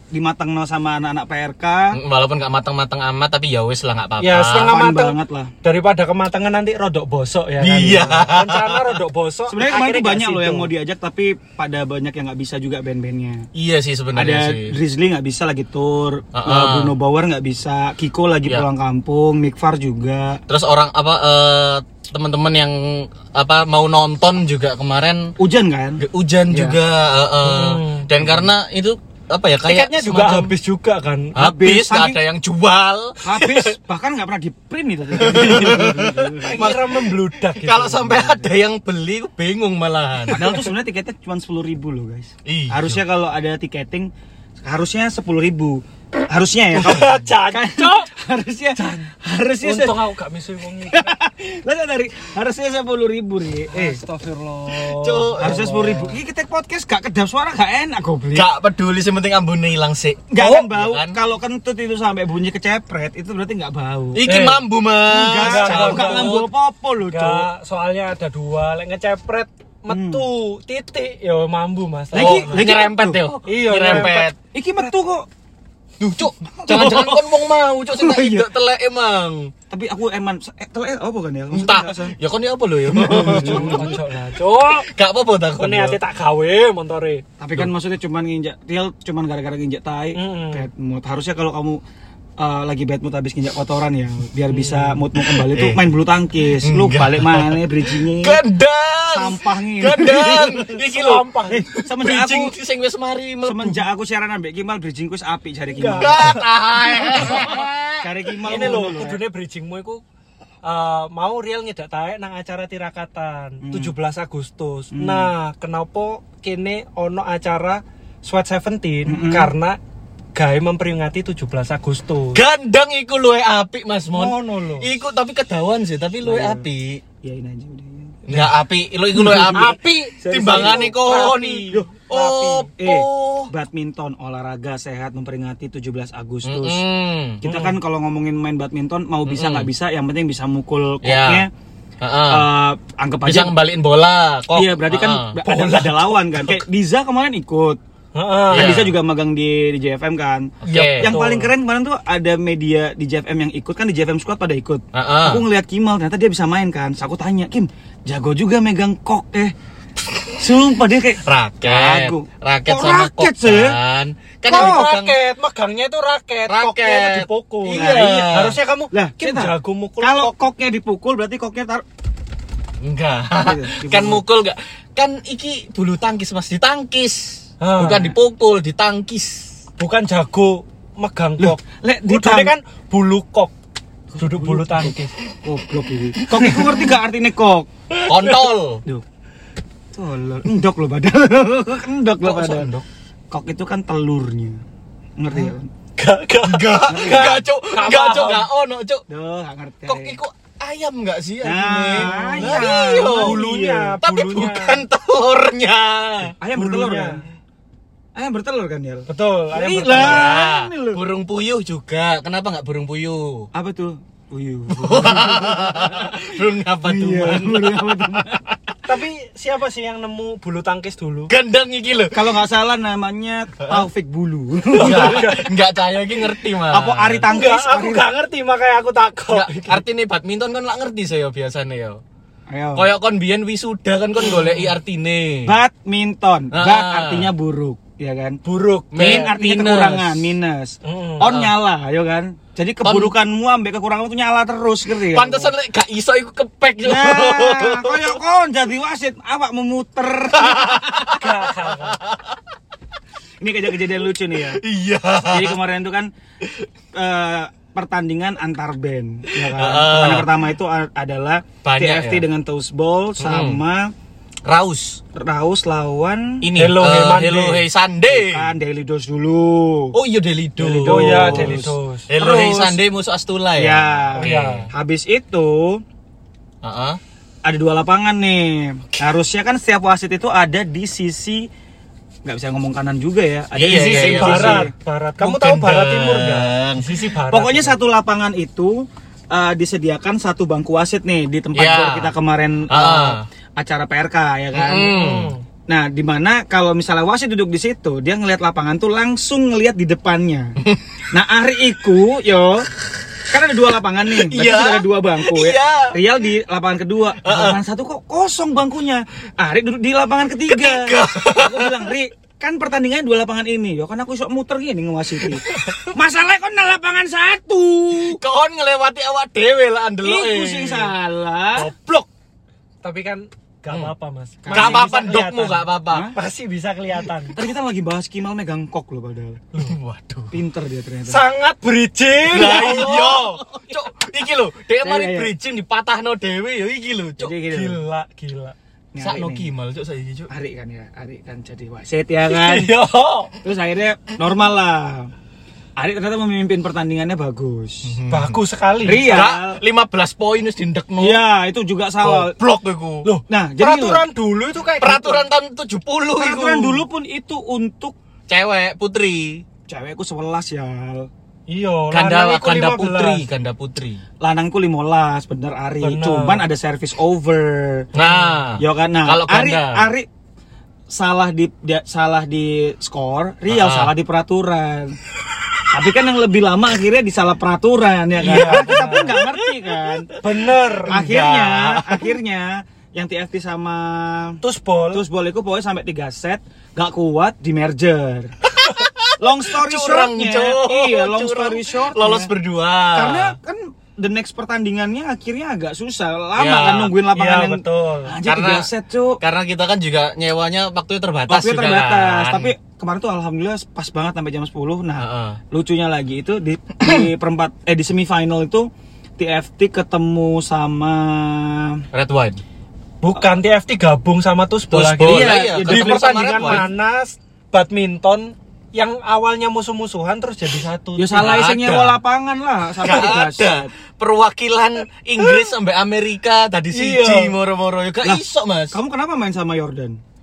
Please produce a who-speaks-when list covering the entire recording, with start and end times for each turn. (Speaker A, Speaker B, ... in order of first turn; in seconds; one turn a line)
Speaker A: 0.1-2.0
Speaker B: 1.9-4.8
Speaker C: 4.2-10.7
Speaker A: 4.6-5.5
Speaker B: 7.6-9.0
Speaker A: 9.5-13.5
Speaker B: 13.5-14.8
Speaker A: 14.2-20.4
Speaker B: 16.3-16.9
Speaker B: 20.5-25.3
Speaker A: 25.4-26.8
Speaker B: 26.0-30.5
Speaker C: 27.4-28.1
Speaker C: 29.6-31.4
Speaker B: 31.4-33.8
Speaker A: 31.4-32.2
Speaker A: 33.2-36.7
Speaker B: 35.2-40.5
Speaker C: 36.4-38.4
Speaker C: 40.3-40.6
Speaker A: 40.3-44.1
Speaker B: 42.5-43.0
Speaker A: 44.6-50.0
Speaker C: 46.8-48.1
Speaker C: 48.8-51.1
Speaker A: 50.9-54.0
Speaker C: 53.7-56.2
Speaker B: 54.9-55.7
Speaker A: 55.4-58.5
Speaker B: 58.3-61.2
Speaker A: 60.3-64.2
Speaker C: 60.4-60.7
Speaker B: 64.1-66.5
Speaker C: 64.2-64.6
Speaker A: 65.1-67.5
Speaker C: 65.4-66.5
Speaker C: 67.1-72.6
Speaker A: 69.9-70.3
Speaker A: 72.1-73.3
Speaker B: 72.1-74.4
Speaker C: 73.5-74.3
Speaker A: 73.8-75.3
Speaker B: 76.0-79.5
Speaker A: 76.6-77.3
Speaker A: 77.9-78.5
Speaker A: 79.7-82.2
Speaker B: 81.5-84.0
Speaker A: 82.9-83.9
Speaker C: 83.1-84.9
Speaker B: 84.6-86.0
Speaker C: 85.6-87.2
Speaker A: 87.4-91.8
Speaker C: 90.2-90.7
Speaker A: 92.4-98.4
Speaker C: 94.5-95.0
Speaker B: 95.2-95.8
Speaker B: 96.6-103.8
Speaker A: 99.1-100.7
Speaker C: 100.7-101.7
Speaker A: 101.5-102.5
Speaker A: 103.4-106.4
Speaker C: 105.7-106.4
Speaker B: 106.0-108.8
Speaker C: 107.0-107.5
Speaker A: 107.1-109.2
Speaker C: 108.5-110.0
Speaker C: 110.6-119.8
Speaker A: 113.6-113.9
Speaker A: 114.9-115.3
Speaker A: 119.1-119.5
Speaker C: 120.3-122.4
Speaker B: 122.3-127.0
Speaker C: 124.1-124.9
Speaker A: 126.2-126.7
Speaker A: 127.2-128.2
Speaker B: 128.3-129.8
Speaker C: 129.2-132.5
Speaker A: 129.2-136.8
Speaker B: 130.3-133.5
Speaker B: 136.4-137.5
Speaker A: 137.4-141.5
Speaker B: 139.3-139.7
Speaker B: 141.0-141.5
Speaker B: 142.0-142.5
Speaker A: 142.3-143.6
Speaker B: 143.2-145.8
Speaker A: 144.5-147.8
Speaker C: 145.5-146.1
Speaker C: 148.2-148.8
Speaker B: 148.5-148.9
Speaker A: 148.5-159.5
Speaker B: 150.7-151.2
Speaker C: 150.7-151.5
Speaker B: 154.9-155.4
Speaker A: 160.2-163.8
Speaker B: 161.2-165.2
Speaker C: 164.5-170.3
Speaker A: 164.5-164.9
Speaker B: 166.5-168.6
Speaker A: 167.7-168.4
Speaker A: 168.9-171.8
Speaker B: 172.8-179.5
Speaker A: 173.4-174.2
Speaker C: 177.6-178.1
Speaker C: 179.8-183.5
Speaker A: 181.4-182.5
Speaker A: 184.1-187.7
Speaker C: 184.2-185.1
Speaker C: 186.2-186.8
Speaker C: 187.9-188.5
Speaker B: 188.1-188.8
Speaker A: 189.9-192.7
Speaker B: 192.2-192.9
Speaker A: 193.3-194.6
Speaker A: 195.2-195.7
Speaker C: 196.0-198.5
Speaker B: 196.4-199.0
Speaker A: 196.9-197.4
Speaker A: 199.1-200.2
Speaker B: 199.9-203.5
Speaker A: 201.4-204.0
Speaker C: 202.0-204.8
Speaker B: 204.0-206.3
Speaker A: 206.4-207.2
Speaker C: 206.5-207.2
Speaker A: 208.2-211.0
Speaker C: 209.1-210.3
Speaker B: 209.9-213.5
Speaker A: 213.5-218.5
Speaker B: 214.7-218.0
Speaker C: 218.8-221.3
Speaker B: 221.3-222.3
Speaker A: 222.1-225.3
Speaker C: 224.7-225.5
Speaker B: 224.8-227.3
Speaker A: 226.6-228.1
Speaker C: 227.3-229.8
Speaker B: 229.3-232.0
Speaker A: 232.5-232.9
Speaker B: 232.8-235.6
Speaker A: 235.4-238.4
Speaker B: 236.5-237.3
Speaker C: 238.4-239.3
Speaker B: 238.9-240.3
Speaker A: 238.9-245.5
Speaker C: 240.8-241.3
Speaker B: 241.2-241.5
Speaker B: 242.8-243.1
Speaker B: 245.0-248.2
Speaker A: 246.8-251.2
Speaker B: 250.4-252.4
Speaker C: 251.1-252.0
Speaker A: 253.4-254.6
Speaker B: 254.5-255.6
Speaker A: 255.3-256.1
Speaker A: 256.9-263.9
Speaker B: 259.3-260.3
Speaker B: 261.6-262.2
Speaker B: 263.2-263.6
Speaker B: 264.4-265.0
Speaker A: 265.1-266.5
Speaker B: 266.4-268.5
Speaker C: 266.6-267.6
Speaker A: 268.1-270.0
Speaker B: 269.9-274.7
Speaker C: 270.7-272.1
Speaker A: 270.7-272.8
Speaker A: 273.6-275.8
Speaker C: 274.2-274.7
Speaker B: 276.6-277.0
Speaker A: 277.4-281.4
Speaker A: 282.2-284.7
Speaker B: 283.5-286.9
Speaker C: 283.7-287.8
Speaker A: 287.3-295.2
Speaker B: 291.5-292.1
Speaker B: 292.7-293.2
Speaker B: 294.5-295.3
Speaker C: 294.8-295.4
Speaker A: 295.7-300.6
Speaker A: 301.1-302.7
Speaker A: 303.3-318.2
Speaker B: 304.1-306.0
Speaker B: 307.2-307.6
Speaker B: 310.5-311.9
Speaker B: 315.2-315.9
Speaker B: 317.9-320.9
Speaker A: 320.0-321.7
Speaker C: 321.6-322.1
Speaker C: 322.8-327.4
Speaker A: 324.4-324.9
Speaker B: 324.5-326.1
Speaker A: 325.9-326.2
Speaker A: 327.4-329.4
Speaker B: 329.6-330.4
Speaker A: 330.3-331.2
Speaker C: 331.1-333.2
Speaker B: 332.3-337.3
Speaker A: 332.6-333.0
Speaker A: 334.8-335.3
Speaker A: 337.2-337.8
Speaker C: 337.5-338.6
Speaker A: 338.9-339.5
Speaker B: 339.0-340.3
Speaker A: 340.3-342.7
Speaker C: 342.3-343.3
Speaker A: 343.4-345.1
Speaker A: 345.8-348.0
Speaker B: 347.9-351.2
Speaker C: 348.1-349.2
Speaker A: 348.8-349.6
Speaker A: 351.0-352.4
Speaker B: 352.0-353.1
Speaker C: 353.0-355.3
Speaker A: 353.3-354.0
Speaker B: 354.8-356.9
Speaker A: 356.2-357.9
Speaker B: 358.3-359.4
Speaker A: 359.7-361.1
Speaker C: 361.5-363.3
Speaker B: 361.9-364.0
Speaker A: 364.2-367.9
Speaker C: 365.8-366.4
Speaker B: 367.9-369.9
Speaker C: 367.9-368.4
Speaker A: 368.6-370.1
Speaker A: 370.9-375.0
Speaker B: 373.5-373.9
Speaker A: 375.7-380.1
Speaker C: 378.2-379.2
Speaker B: 378.2-379.5
Speaker C: 380.2-381.0
Speaker B: 380.7-382.1
Speaker A: 380.9-384.4
Speaker C: 384.4-385.0
Speaker A: 384.9-388.4
Speaker B: 388.4-393.4
Speaker A: 389.2-392.3
Speaker A: 392.9-399.2
Speaker B: 396.4-397.0
Speaker C: 397.1-398.1
Speaker B: 398.2-398.7
Speaker B: 399.2-402.5
Speaker A: 401.3-411.9
Speaker B: 405.0-405.4
Speaker B: 411.9-412.4
Speaker C: 413.0-421.5
Speaker B: 414.7-416.7
Speaker A: 415.0-416.6
Speaker A: 421.0-423.7
Speaker B: 421.1-422.0
Speaker B: 422.8-428.8
Speaker C: 426.7-427.4
Speaker A: 428.0-430.0